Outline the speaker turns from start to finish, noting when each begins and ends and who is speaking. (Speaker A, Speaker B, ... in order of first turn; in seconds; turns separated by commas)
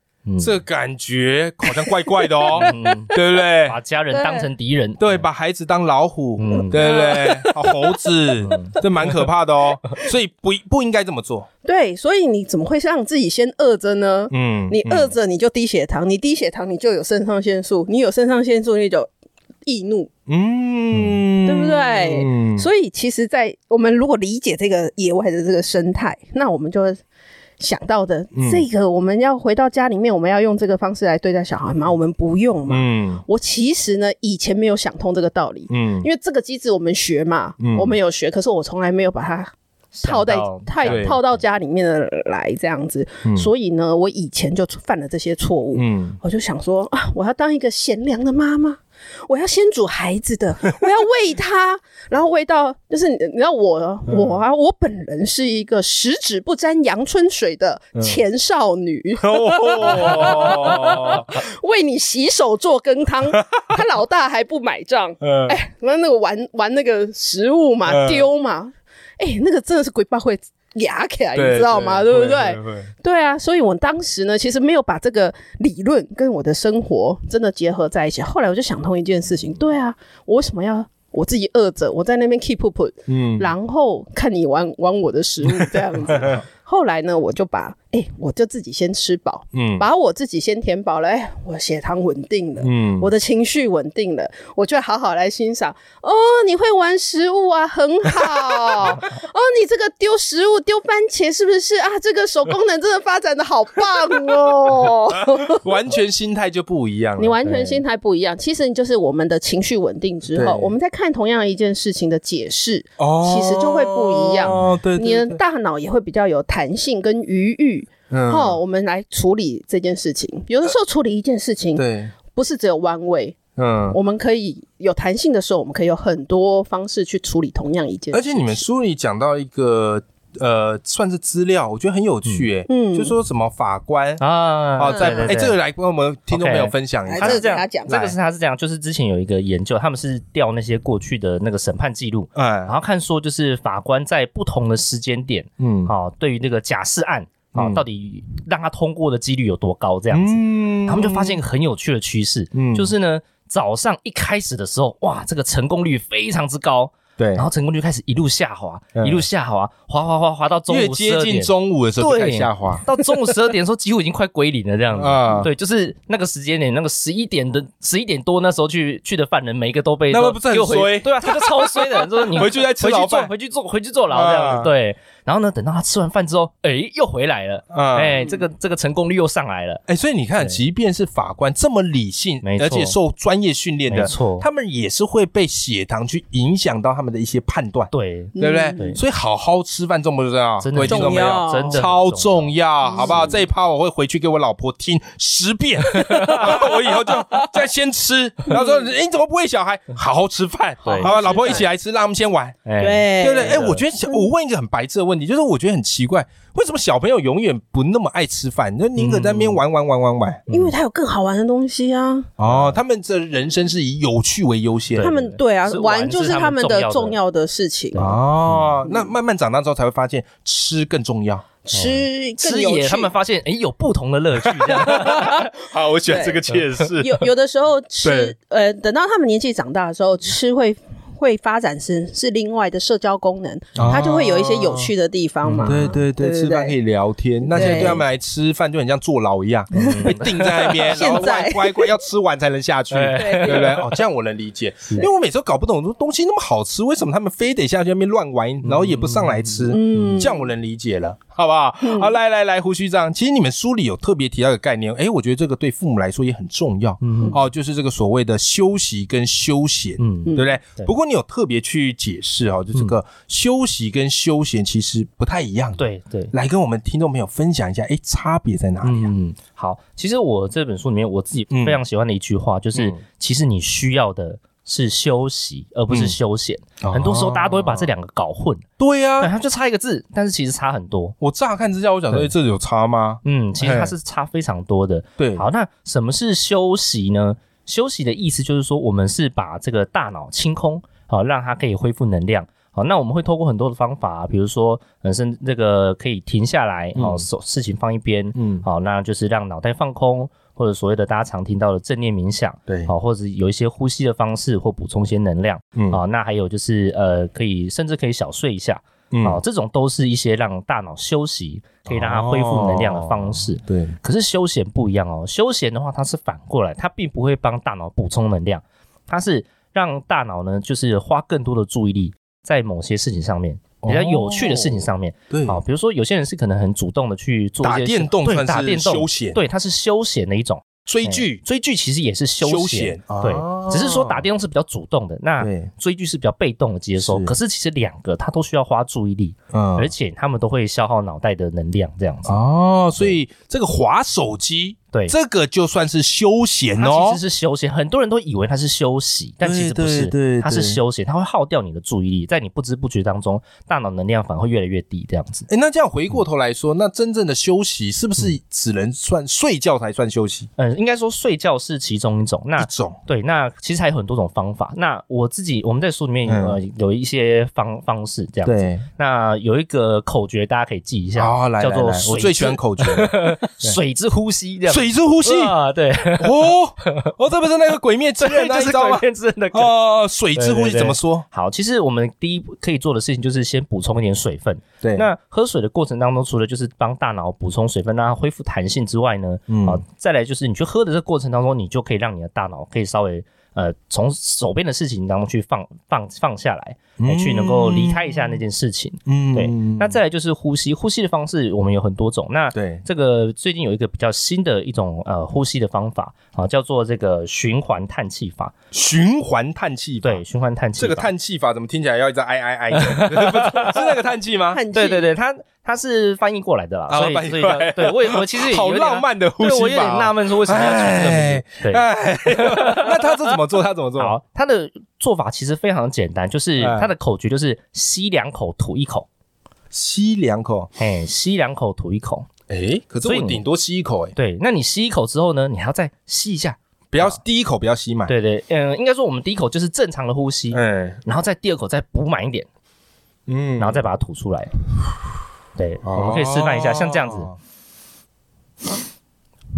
Speaker A: 0.2-0.6, Speaker B: 0.4-3.8, Speaker A: 2.5-5.2, Speaker C: 4.1-4.5, Speaker B: 5.0-11.5, Speaker A: 6.4-6.9, Speaker C: 6.7-8.2, Speaker A: 8.4-8.8, Speaker C: 11.6-19.1, Speaker B: 14.3-15.1, Speaker C: 19.6-20.1, Speaker B: 20.3-22.7, Speaker A: 20.9-21.2, Speaker C: 21.4-27.0, Speaker C: 27.6-39.5, Speaker B: 28.3-28.6, Speaker B: 32.7-33.2, Speaker B: 35.7-36.1, Speaker B: 37.6-38.0, Speaker A: 39.9-41.4, Speaker C: 40.0-105.6, Speaker B: 40.9-41.1, Speaker B: 43.2-43.5, Speaker B: 45.7-46.2, Speaker B: 54.1-54.3, Speaker B: 57.9-58.2, Speaker B: 59.2-61.4, Speaker B: 63.3-63.6, Speaker B: 65.2-65.6, Speaker B: 67.8-68.2, Speaker B: 71.3-72.9, Speaker B: 83.1-83.5, Speaker B: 89.5-89.8, Speaker B: 92.6-93.1, Speaker B: 105.2-107.7, Speaker C: 107.2-123.4, Speaker B: 110.3-110.7, Speaker B: 113.0-115.4, Speaker B: 118.1-118.6, Speaker B: 121.8-122.1, Speaker B: 123.5-124.0, Speaker C: 123.9-128.6, Speaker B: 128.1-137.4, Speaker C: 132.7-133.2, Speaker A: 134.2-135.6, Speaker C: 134.9-135.3, Speaker A: 136.3-179.8, Speaker C: 137.1-138.2, Speaker B: 142.3-142.7, Speaker B: 145.6-145.9, Speaker B: 147.5-147.8, Speaker B: 150.1-151.4, Speaker B: 152.5-152.9, Speaker B: 157.2-157.4, Speaker B: 158.9-159.2, Speaker B: 160.7-162.8, Speaker B: 164.9-165.5, Speaker B: 170.1-173.3, Speaker B: 174.1-174.7, Speaker B: 177.7-178.2, Speaker B: 179.9-202.6, Speaker A: 182.4-183.0, Speaker A: 183.9-184.4, Speaker A: 187.9-189.0, Speaker C: 188.3-189.0, Speaker A: 190.6-193.3, Speaker C: 190.8-191.8, Speaker C: 192.8-193.4, Speaker A: 196.0-196.3, Speaker C: 196.1-197.2, Speaker C: 198.5-198.8, Speaker A: 200.8-201.6, Speaker C: 200.9-201.7, Speaker A: 202.6-203.8, Speaker C: 202.8-204.3, Speaker B: 203.2-210.4, Speaker A: 208.9-209.6, Speaker A: 210.5-210.7, Speaker C: 210.5-212.3, Speaker B: 212.4-215.1, Speaker A: 212.4-212.8, Speaker A: 214.9-217.2, Speaker C: 215.0-218.1, Speaker A: 217.9-218.7, Speaker B: 217.9-221.4, Speaker C: 218.8-219.1, Speaker C: 221.6-223.1, Speaker A: 221.7-225.5, Speaker B: 224.4-227.2, Speaker C: 226.0-236.7, Speaker B: 228.0-228.3, Speaker B: 233.8-234.9, Speaker A: 235.4-235.9, Speaker B: 235.6-269.1, Speaker C: 237.4-238.0, Speaker A: 237.5-238.0, Speaker A: 239.7-241.1, Speaker C: 239.8-241.9, Speaker A: 242.9-244.0, Speaker C: 243.1-243.8, Speaker A: 248.6-250.3, Speaker C: 249.7-250.5, Speaker C: 251.8-252.1, Speaker A: 257.0-257.4, Speaker A: 260.0-260.9, Speaker C: 260.2-260.5, Speaker A: 265.8-266.3, Speaker A: 268.8-278.6, Speaker B: 271.5-271.8, Speaker B: 272.7-273.0, Speaker B: 275.9-276.1, Speaker B: 276.8-277.9, Speaker B: 278.8-279.3, Speaker A: 279.2-281.1, Speaker B: 281.2-283.9, Speaker A: 283.2-342.4, Speaker B: 285.2-285.4, Speaker B: 296.9-297.2, Speaker B: 298.3-298.6, Speaker B: 302.7-302.9, Speaker B: 305.8-306.0, Speaker B: 309.1-309.4, Speaker B: 311.9-314.0, Speaker B: 323.8-325.6, Speaker B: 327.6-329.4, Speaker B: 330.8-331.4, Speaker B: 332.4-334.2, Speaker B: 335.4-335.7, Speaker B: 337.0-337.3, Speaker B: 339.5-339.9, Speaker B: 342.3-347.2, Speaker A: 346.8-355.5, Speaker B: 349.4-350.8, Speaker B: 355.5-360.5, Speaker A: 360.6-377.1, Speaker B: 362.6-363.0, Speaker B: 366.2-366.6, Speaker B: 368.4-368.9, Speaker B: 371.1-373.8, Speaker B: 374.7-375.6, Speaker B: 376.2-381.2, Speaker A: 378.2-379.7, Speaker A: 380.3-408.5, Speaker B: 384.8-385.1, Speaker B: 389.5-389.8, Speaker B: 397.0-398.4, Speaker B: 399.1-400.0, Speaker B: 402.5-402.8, Speaker B: 408.7-410.2, Speaker A: 410.0-411.1, Speaker B: 410.8-414.6, Speaker A: 412.7-413.8, Speaker C: 414.5-415.1, Speaker A: 414.7-422.9, Speaker B: 416.9-424.2, Speaker A: 423.9-429.1, Speaker B: 426.6-426.9, Speaker B: 429.7-430.7, Speaker A: 430.8-432.3, Speaker B: 432.5-434.1, Speaker A: 433.0-433.4, Speaker A: 434.1-437.2, Speaker B: 436.9-438.1, Speaker A: 438.1-442.5, Speaker B: 440.5-441.0, Speaker B: 443.3-443.8, Speaker A: 443.6-444.5, Speaker A: 445.6-447.3, Speaker B: 445.8-447.4